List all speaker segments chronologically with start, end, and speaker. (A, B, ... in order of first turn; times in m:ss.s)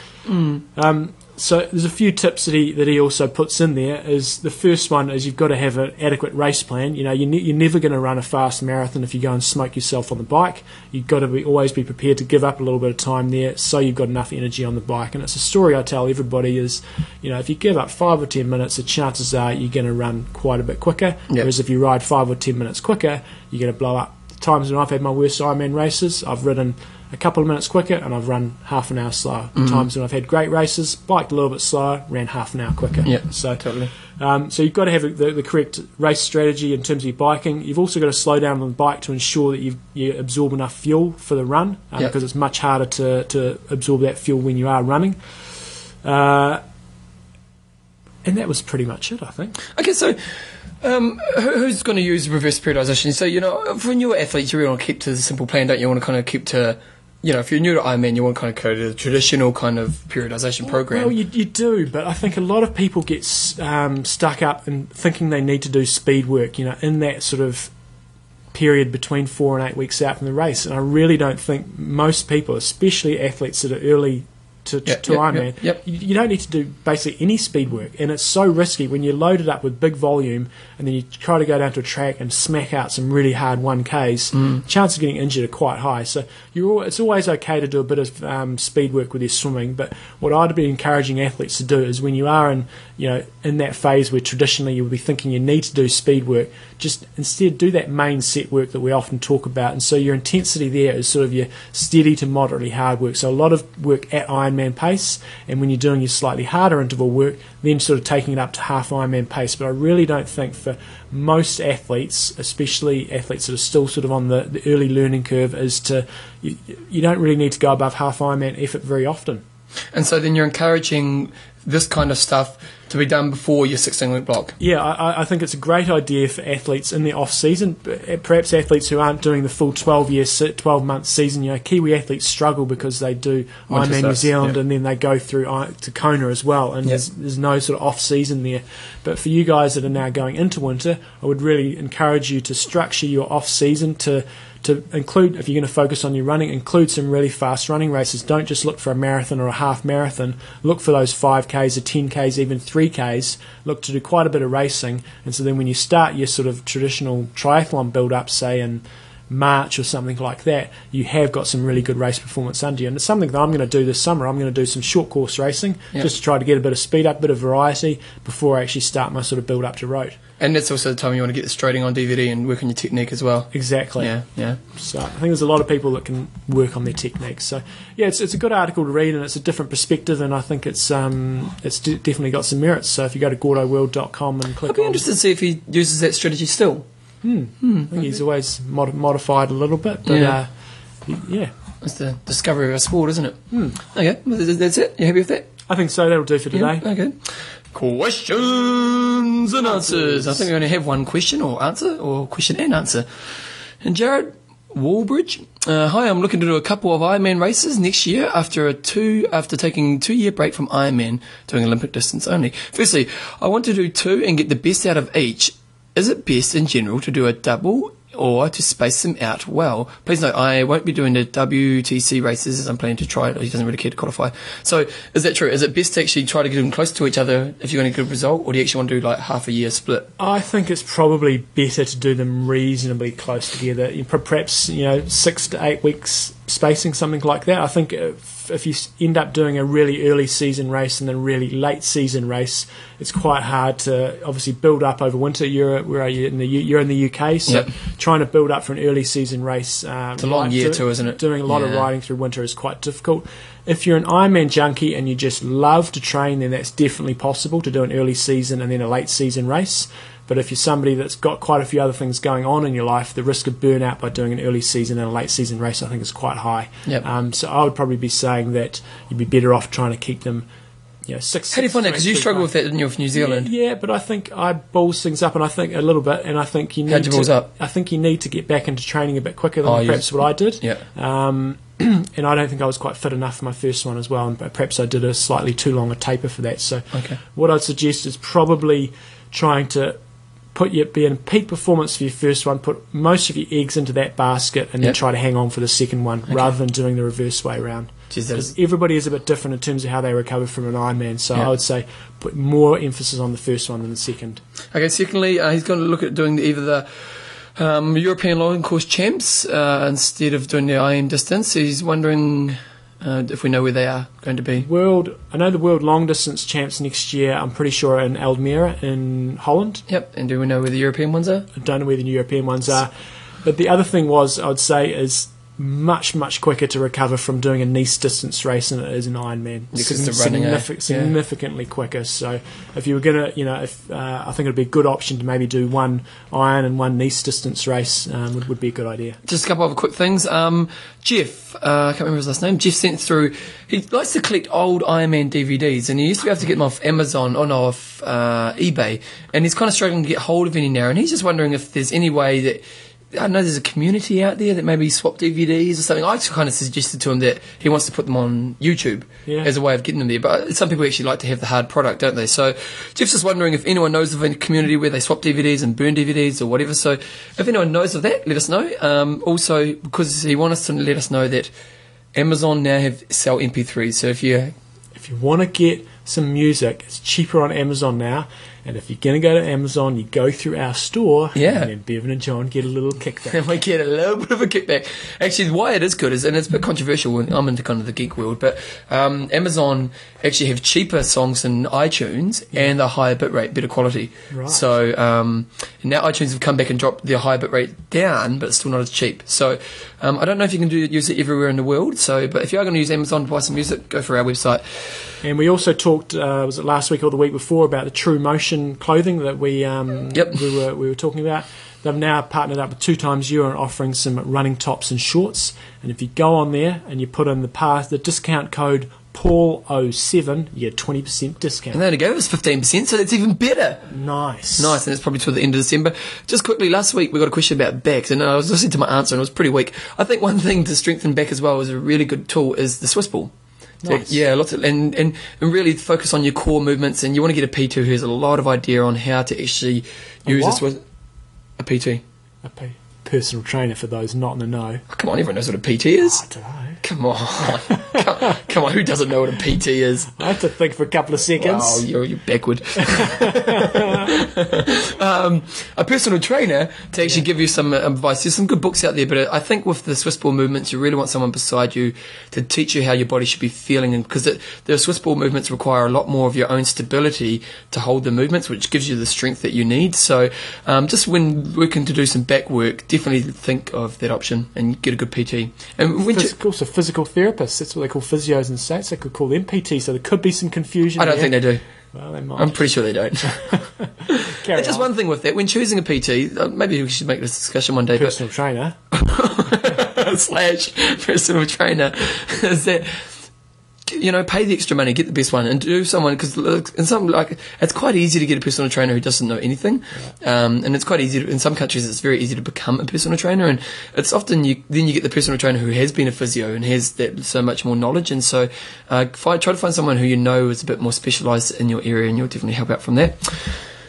0:00.3-0:00.6 A
0:00.8-0:45.2 B
0:29.6-0:29.8 A
0:33.0-0:33.9 A
0:46.0-0:46.6 B
0:48.2-0:49.6 B
0:49.7-0:50.2 A
0:50.8-1:01.1 A
1:00.6-1:07.7 B
1:08.5-1:59.4 B
1:14.9-1:15.8 A
1:59.9-2:04.6 A
2:04.6-2:50.2 B
2:13.7-2:14.6 A
2:50.4-2:54.6 A
2:53.5-2:54.1 B
2:54.7-3:05.1 B
3:04.7-3:06.9 A
3:07.2-3:10.5 B
3:07.6-3:08.2 A
3:10.1-3:10.4 A
3:11.1-3:11.5 B
3:11.8-3:15.5 A
3:13.5-3:13.8 B
3:15.7-3:16.8 B
3:16.5-3:23.1 A
3:19.6-3:20.5 B
3:23.8-3:50.1 A
3:50.2-4:30.5 B
4:10.2-4:11.9 A
4:31.1-4:32.5 B
4:31.5-4:33.5 A
4:33.2-4:50.0 B
4:36.9-4:37.5 A
4:39.6-4:40.8 A
4:46.9-4:47.2 A
4:50.5-5:04.4 B
4:58.1-4:58.5 A
5:04.7-5:14.7 A
5:14.6-5:19.8 B
5:19.9-5:21.5 A
5:21.6-5:22.9 B
5:23.4-5:39.2 B
5:29.7-5:31.1 A
5:39.2-6:11.5 A
5:59.3-5:59.5 B
6:12.2-6:14.5 A
6:15.0-6:23.5 B
6:21.4-6:21.7 A
6:23.3-6:44.6 A
6:34.3-6:34.7 B
6:45.2-7:01.8 B
6:50.1-6:50.4 A
7:01.7-7:03.8 A
7:03.9-7:04.8 B
7:04.6-7:13.3 A
7:13.8-7:14.2 B
7:13.9-7:20.8 A
7:20.3-7:20.6 B
7:21.6-7:22.0 A
7:22.4-7:24.8 B
7:24.9-7:26.2 A
7:26.0-7:26.8 B
7:26.8-7:30.2 A
7:27.5-7:28.4 B
7:30.2-7:31.9 B
7:31.4-7:56.3 A
7:32.8-7:34.1 B
7:56.1-8:01.4 B
8:01.0-8:01.6 A
8:01.9-8:02.6 B
8:02.4-8:03.6 A
8:03.3-8:04.9 B
8:04.1-8:08.2 A
8:07.9-8:08.8 B
8:08.9-8:13.1 A
8:13.9-8:33.6 A